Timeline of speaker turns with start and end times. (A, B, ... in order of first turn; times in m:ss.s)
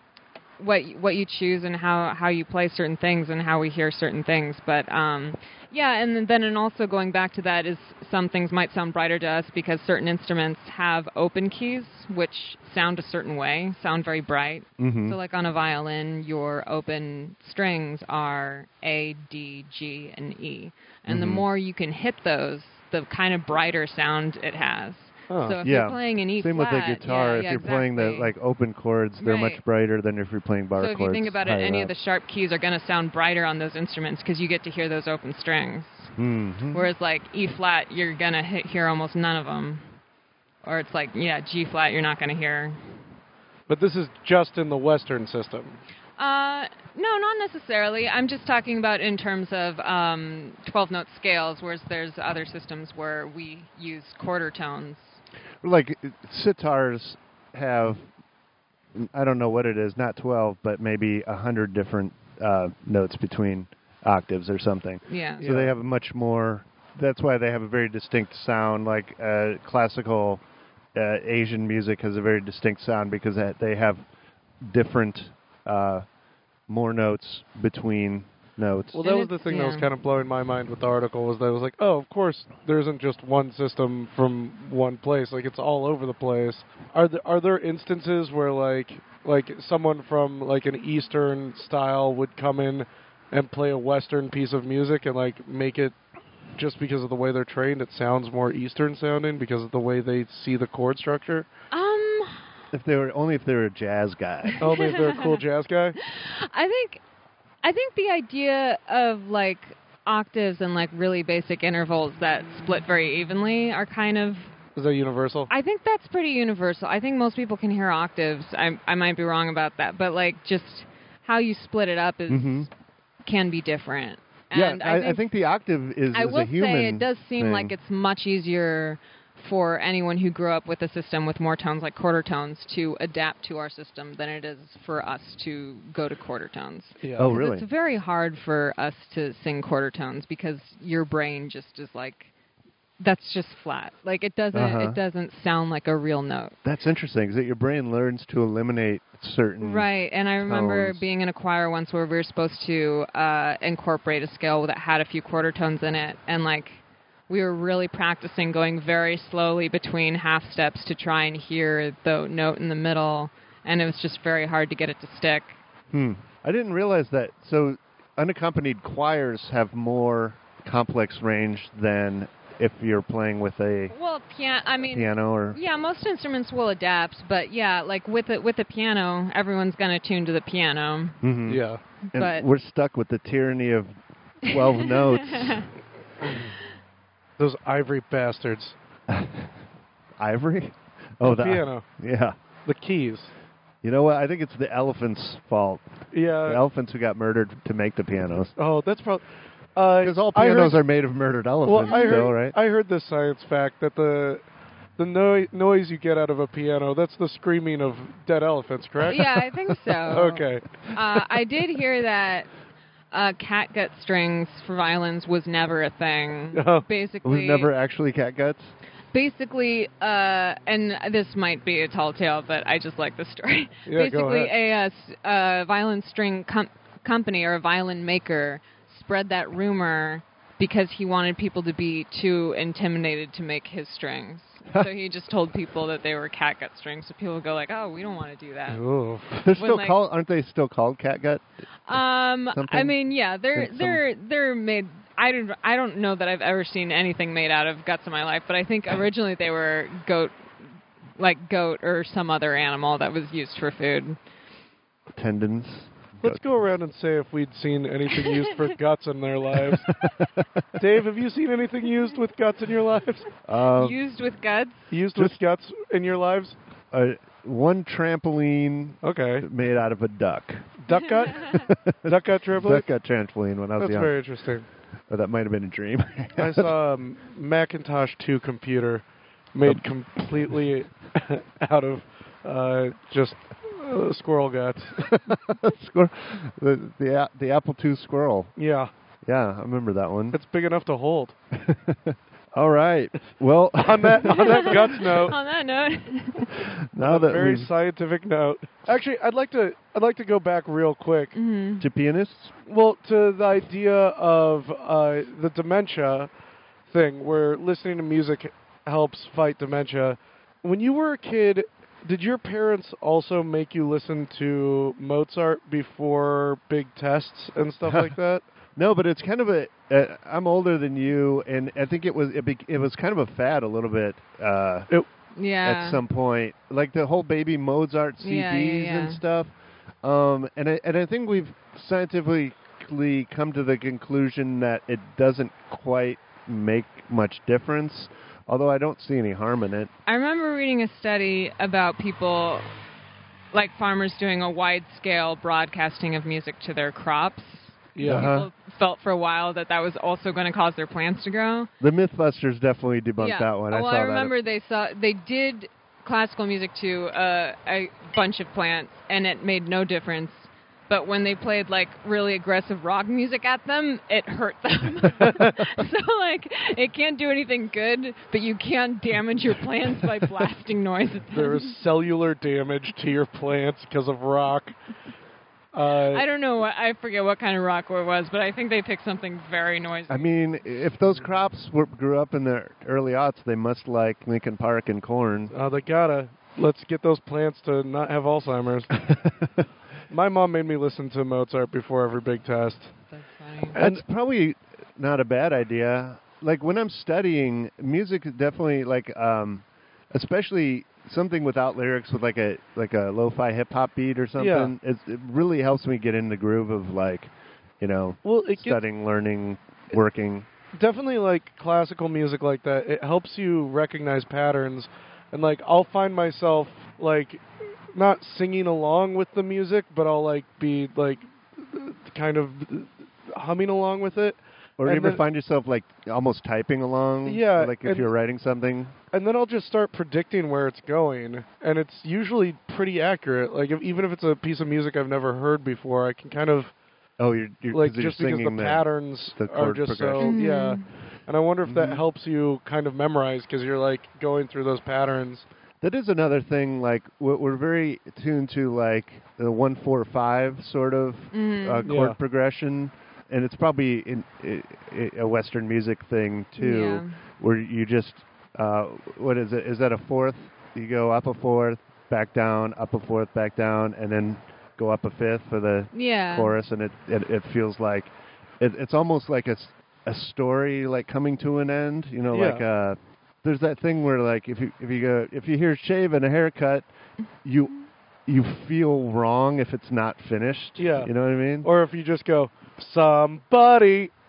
0:00.6-0:28.3 A
0:14.8-0:15.2 B
0:21.1-0:21.4 B
0:25.3-0:25.6 C
0:25.6-0:31.9 B
0:29.2-0:29.6 A
0:30.8-0:36.2 A
0:36.2-0:36.9 B
0:36.7-0:39.8 A
0:40.6-0:42.8 A
0:43.7-0:45.8 C
0:46.2-0:55.2 A
0:55.6-0:58.0 B
0:59.0-1:10.4 B
1:05.1-1:05.6 A
1:10.9-1:14.0 B
1:14.6-1:16.0 B
1:16.7-1:19.0 B
1:18.9-1:35.9 C
1:19.0-1:19.9 A
1:36.6-1:41.5 C
1:41.7-1:42.5 A
1:42.7-1:44.7 B
1:44.5-1:45.2 A
1:44.6-1:46.0 C
1:46.0-1:47.0 A
1:47.6-1:54.5 A
1:54.8-1:55.5 C
1:55.5-2:02.7 A
2:02.3-2:02.7 B
2:03.2-2:05.3 A
2:04.5-2:07.7 B
2:06.1-2:22.3 A
2:17.0-2:17.3 C
2:17.2-2:17.6 B
2:23.0-2:26.6 A
2:24.5-2:25.0 B
2:26.6-2:29.9 B
2:29.6-2:45.6 A
2:30.4-2:31.0 B
2:45.9-2:53.9 B
2:53.9-3:01.2 A
2:54.9-2:55.6 B
3:01.2-3:05.7 B
3:01.5-3:01.8 C
3:02.1-3:02.4 A
3:04.5-3:05.6 A
3:07.4-3:08.7 C
3:09.1-3:09.5 B
3:10.2-3:12.3 B
3:11.2-3:11.8 C
3:12.6-3:13.3 C
3:13.8-3:15.8 B
3:16.1-3:16.6 C
3:16.4-3:18.5 B
3:18.6-3:19.2 C
3:19.8-3:20.8 C
3:20.0-3:22.6 B
3:21.6-3:24.4 C
3:21.9-3:22.3 A
3:25.0-3:29.5 C
3:29.0-3:32.5 A
3:30.0-3:30.7 C
3:33.1-3:37.7 A
3:36.5-3:36.8 C
3:37.2-3:38.7 B
3:39.1-3:58.8 A
3:43.8-3:44.5 C
3:58.7-3:59.4 C
3:59.4-4:03.0 B
3:59.5-4:00.0 A
4:01.9-4:10.3 A
4:03.5-4:04.0 B
4:11.2-4:14.2 A
4:15.2-4:16.4 B
4:16.2-4:19.9 C
4:19.6-4:20.8 B
4:20.8-4:23.3 C
4:23.4-4:24.0 B
4:23.7-4:24.9 A
4:24.9-4:26.6 C
4:26.9-4:30.7 B
4:29.0-4:29.5 C
4:30.8-4:32.9 C
4:31.5-4:34.2 B
4:33.8-4:34.6 C
4:35.1-4:36.7 B
4:36.4-4:45.2 C
4:45.0-4:48.5 B
4:48.6-4:48.9 C
4:49.2-4:50.4 B
4:50.3-4:51.3 C
4:51.5-4:54.9 B
4:53.8-4:55.4 C
4:54.3-4:56.5 A
4:56.7-4:57.7 B
4:57.0-5:01.4 C
5:01.3-5:01.8 A
5:01.8-5:02.5 B
5:02.6-5:06.3 C
5:06.9-5:18.4 C
5:17.8-5:18.1 B
5:18.8-5:24.9 B
5:25.4-5:26.0 A
5:25.6-5:29.5 B
5:28.2-5:29.2 A
5:30.0-5:39.9 B
5:40.0-5:42.7 A
5:43.5-5:51.7 A
5:47.9-5:48.3 C
5:48.0-5:48.5 B
5:51.8-5:54.3 B
5:53.2-6:11.7 A
6:05.2-6:05.6 C
6:11.3-6:14.7 C
6:15.7-6:16.2 C
6:16.1-6:20.3 A
6:20.1-6:25.5 B
6:25.5-6:29.1 C
6:29.0-6:29.6 B
6:30.1-6:32.9 C
6:33.1-6:33.8 A
6:33.7-6:34.0 C
6:33.8-6:50.5 B
6:44.4-6:44.7 C
6:48.2-6:48.8 C
6:50.8-7:05.2 C
7:04.8-7:08.9 B
7:07.2-7:08.1 C
7:09.1-7:16.7 C
7:17.2-7:20.4 B
7:17.7-7:25.4 C
7:20.2-7:20.8 A
7:21.6-7:22.0 B
7:25.8-7:56.9 B
7:31.3-7:31.9 A
7:31.8-7:32.2 C
7:36.6-7:37.2 A
7:45.9-7:46.5 A
7:52.3-7:52.6 C
7:57.4-7:57.7 B
7:58.2-8:01.7 B
8:00.8-8:04.1 C